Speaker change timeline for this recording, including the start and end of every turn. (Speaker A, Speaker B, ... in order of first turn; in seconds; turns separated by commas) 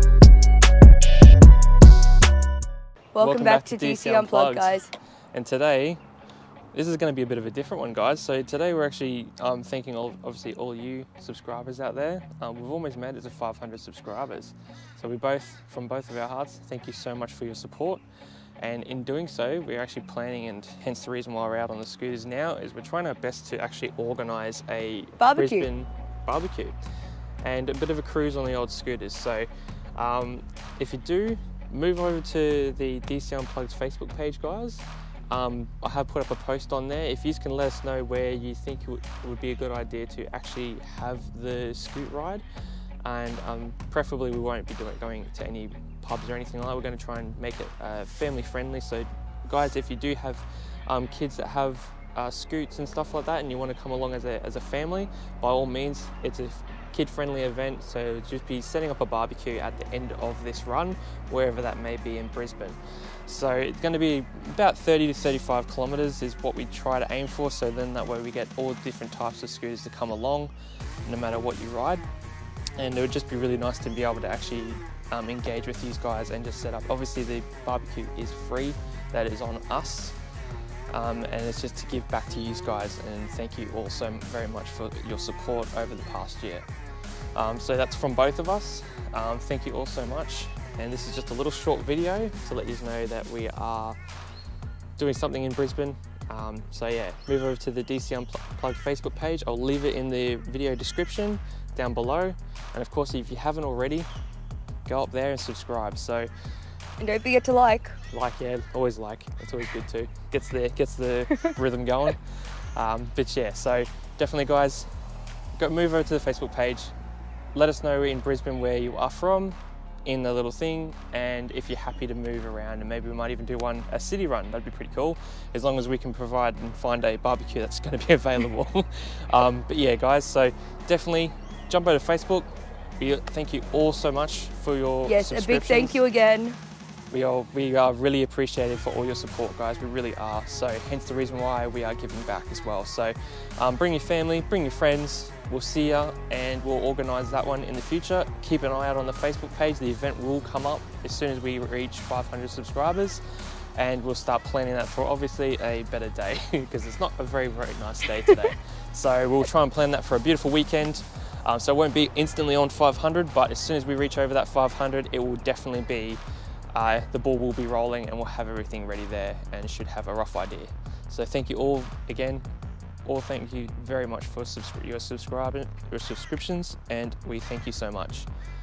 Speaker A: 3.1-4.9, Speaker B: 3.2-4.8, Speaker B: 5.3-6.0, Speaker B: 6.7-18.0, Speaker B: 18.6-26.8, Speaker A: 25.2-25.7, Speaker B: 27.4-42.4, Speaker B: 43.0-70.5, Speaker B: 71.0-72.0, Speaker B: 72.8-80.2, Speaker B: 80.9-86.7, Speaker B: 87.3-94.0, Speaker B: 95.0-104.1, Speaker B: 104.8-106.3, Speaker A: 107.0-108.0, Speaker B: 108.1-114.9, Speaker B: 115.6-116.9, Speaker B: 117.5-136.0, Speaker A: 135.0-136.6, Speaker B: 137.1-153.2, Speaker B: 153.7-166.2, Speaker B: 166.7-172.5, Speaker B: 173.0-178.3